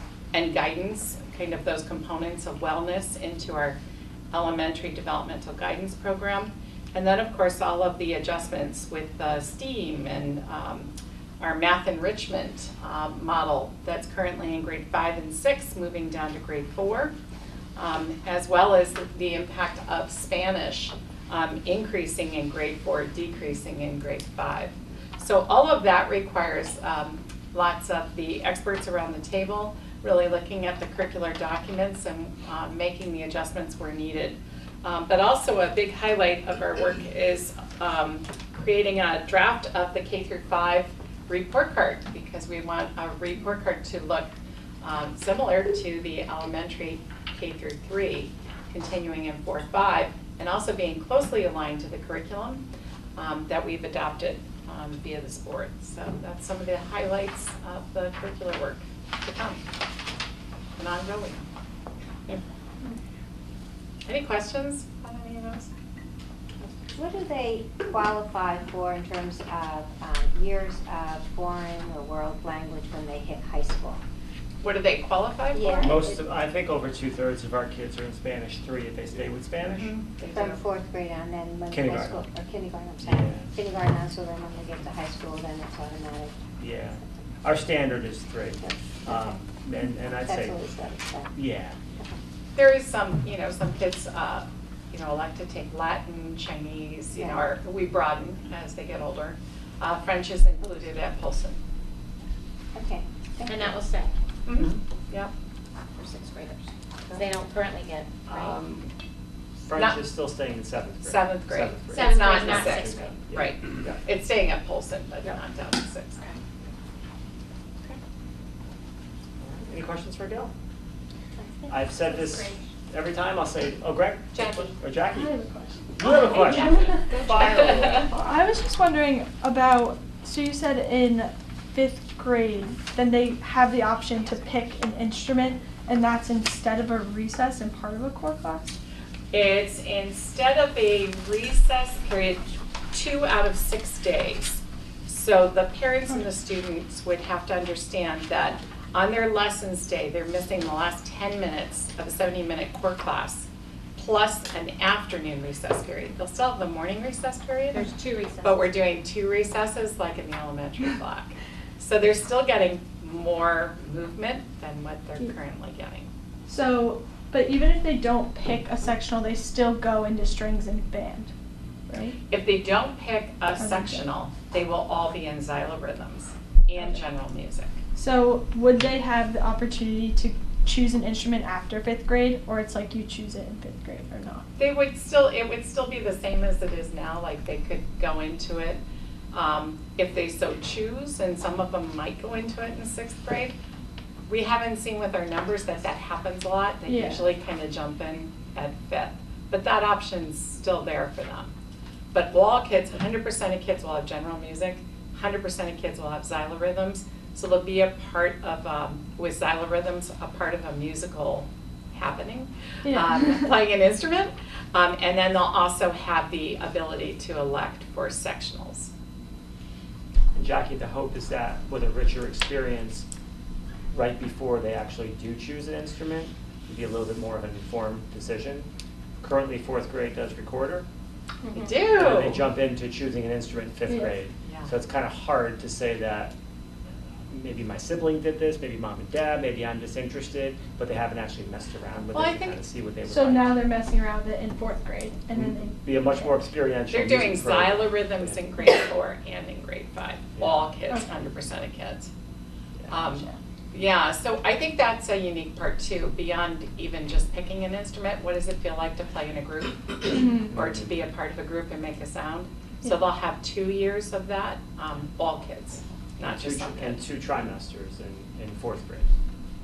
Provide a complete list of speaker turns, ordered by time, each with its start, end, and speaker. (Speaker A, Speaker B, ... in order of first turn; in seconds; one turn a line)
Speaker A: 0.3-3.8
Speaker A: 4.3-17.1
Speaker A: 17.8-52.6
Speaker A: 53.1-59.6
Speaker A: 60.8-61.4
Speaker A: 64.0-65.7
Speaker B: 66.9-74.0
Speaker A: 74.6-76.0
Speaker B: 75.5-76.2
Speaker C: 75.8-79.9
Speaker A: 79.6-80.6
Speaker B: 80.3-87.1
Speaker C: 81.7-82.3
Speaker C: 83.0-83.5
Speaker C: 86.6-90.6
Speaker B: 88.6-89.4
Speaker B: 90.0-91.4
Speaker C: 91.3-91.8
Speaker A: 92.5-101.6
Speaker B: 97.2-97.5
Speaker B: 102.7-103.8
Speaker D: 103.5-104.1
Speaker A: 104.5-105.3
Speaker D: 106.0-108.6
Speaker C: 108.3-108.9
Speaker C: 109.6-114.0
Speaker A: 109.7-110.0
Speaker A: 111.0-116.2
Speaker D: 111.9-113.1
Speaker C: 119.4-120.5
Speaker C: 121.7-125.3
Speaker A: 124.3-124.7
Speaker E: 125.2-127.1
Speaker C: 126.0-128.2
Speaker D: 126.1-126.4
Speaker A: 127.4-128.1
Speaker E: 128.2-138.8
Speaker A: 139.3-157.9
Speaker D: 157.7-158.7
Speaker A: 158.4-166.1
Speaker E: 166.4-171.3
Speaker E: 171.9-172.2
Speaker A: 172.3-177.8
Speaker E: 173.6-174.0
Speaker E: 177.9-184.4
Speaker A: 184.6-188.8
Speaker A: 189.3-193.5
Speaker A: 194.3-201.5
Speaker E: 196.8-197.2
Speaker A: 202.1-218.9
Speaker E: 212.8-213.2
Speaker C: 220.3-223.1
Speaker C: 223.9-228.7
Speaker C: 229.2-230.8
Speaker A: 231.5-232.4
Speaker C: 231.8-236.3
Speaker A: 234.4-234.7
Speaker C: 237.3-243.6
Speaker A: 242.1-242.6
Speaker E: 243.1-246.3
Speaker C: 245.3-248.4
Speaker A: 246.9-252.1
Speaker C: 250.4-250.7
Speaker A: 252.9-267.0
Speaker E: 260.1-260.5
Speaker C: 260.5-260.9
Speaker C: 266.2-269.1